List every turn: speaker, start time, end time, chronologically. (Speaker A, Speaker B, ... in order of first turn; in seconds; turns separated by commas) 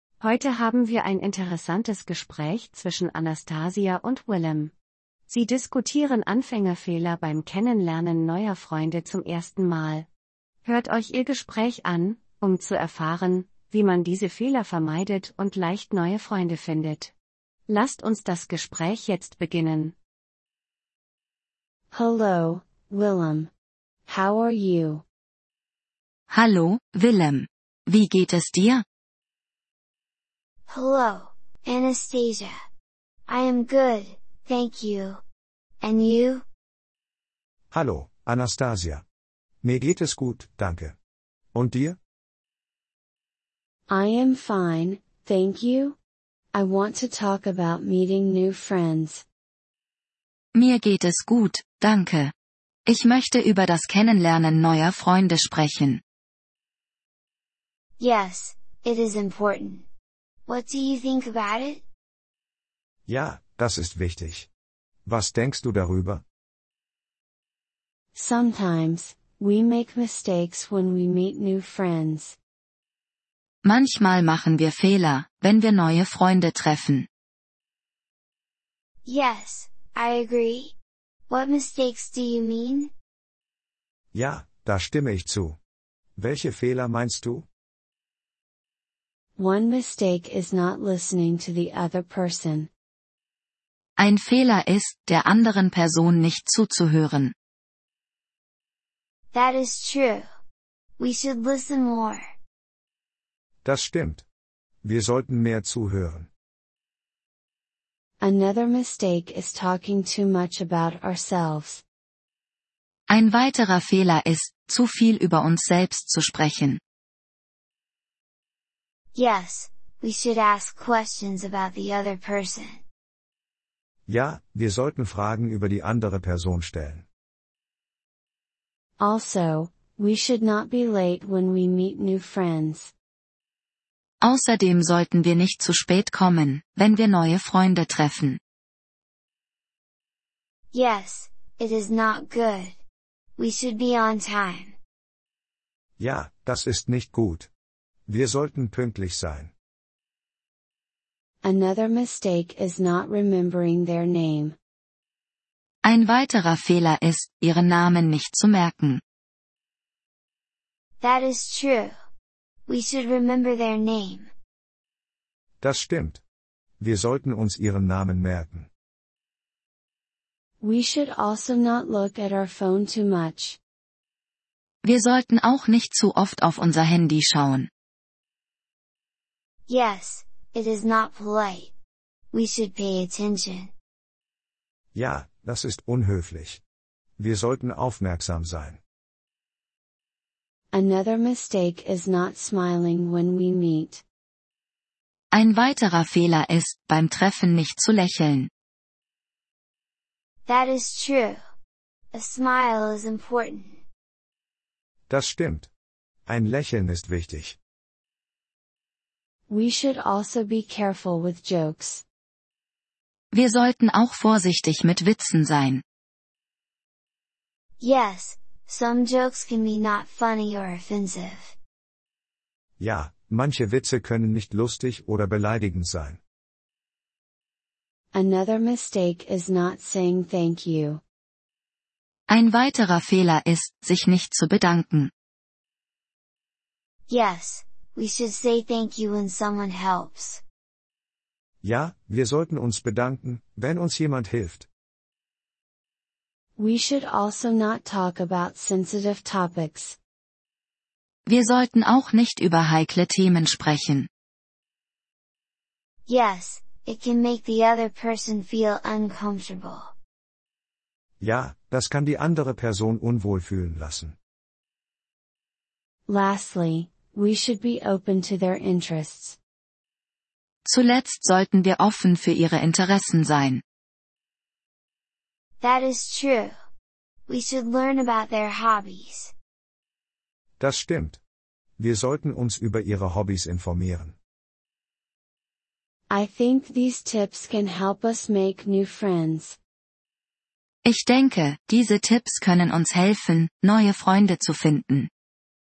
Speaker A: 0.2-4.7, Speaker A: 5.3-10.1, Speaker A: 10.6-17.1, Speaker A: 17.7-19.9, Speaker B: 21.9-23.5, Speaker B: 24.1-25.0, Speaker C: 26.3-28.8, Speaker D: 30.7-32.5, Speaker D: 33.3-35.2, Speaker D: 35.8-36.4, Speaker E: 37.7-39.0, Speaker E: 39.6-41.0, Speaker E: 41.5-42.0, Speaker B: 43.9-46.0, Speaker B: 46.5-49.2, Speaker C: 50.5-52.3, Speaker C: 52.9-56.0, Speaker D: 58.0-59.8, Speaker D: 60.5-61.8, Speaker E: 63.1-64.5, Speaker E: 65.0-66.2, Speaker B: 68.1-72.4, Speaker C: 73.6-77.1, Speaker D: 79.0-80.7, Speaker D: 81.3-82.9, Speaker E: 84.1-85.6, Speaker E: 86.2-87.5, Speaker B: 89.4-92.7, Speaker C: 94.0-97.3, Speaker D: 99.3-100.2, Speaker D: 101.0-102.2, Speaker E: 103.6-104.2, Speaker E: 104.8-106.3, Speaker B: 108.2-111.8, Speaker C: 113.1-116.8, Speaker D: 119.1-122.8, Speaker E: 124.1-127.0, Speaker B: 129.0-132.9, Speaker C: 134.2-138.4, Speaker D: 140.7-142.8, Speaker D: 143.4-144.8, Speaker E: 146.0-147.5, Speaker E: 148.1-149.5, Speaker B: 151.4-154.6, Speaker C: 155.8-159.0, Speaker D: 161.0-161.9, Speaker D: 162.7-164.3, Speaker E: 165.6-166.2, Speaker E: 166.8-168.7, Speaker B: 170.6-173.6, Speaker C: 174.8-177.7, Speaker D: 179.7-181.7, Speaker D: 182.3-183.7, Speaker E: 184.9-186.6, Speaker E: 187.2-188.8, Speaker B: 190.7-194.0, Speaker C: 195.3-198.5, Speaker D: 200.5-201.4, Speaker D: 202.1-203.8, Speaker E: 205.1-205.7, Speaker E: 206.3-207.6, Speaker B: 209.5-212.0, Speaker C: 213.3-215.8, Speaker D: 217.8-221.5, Speaker E: 222.8-226.2, Speaker B: 228.1-231.0, Speaker C: 232.3-235.1, Speaker D: 237.1-240.4, Speaker E: 241.6-244.7, Speaker B: 246.6-250.0, Speaker C: 251.2-254.1, Speaker D: 256.1-259.9, Speaker E: 261.2-264.1, Speaker B: 266.1-269.4, Speaker C: 270.6-273.6, Speaker D: 275.6-276.5, Speaker D: 277.3-279.3, Speaker E: 280.6-281.2, Speaker E: 281.8-284.1, Speaker B: 286.1-289.6, Speaker C: 290.8-295.1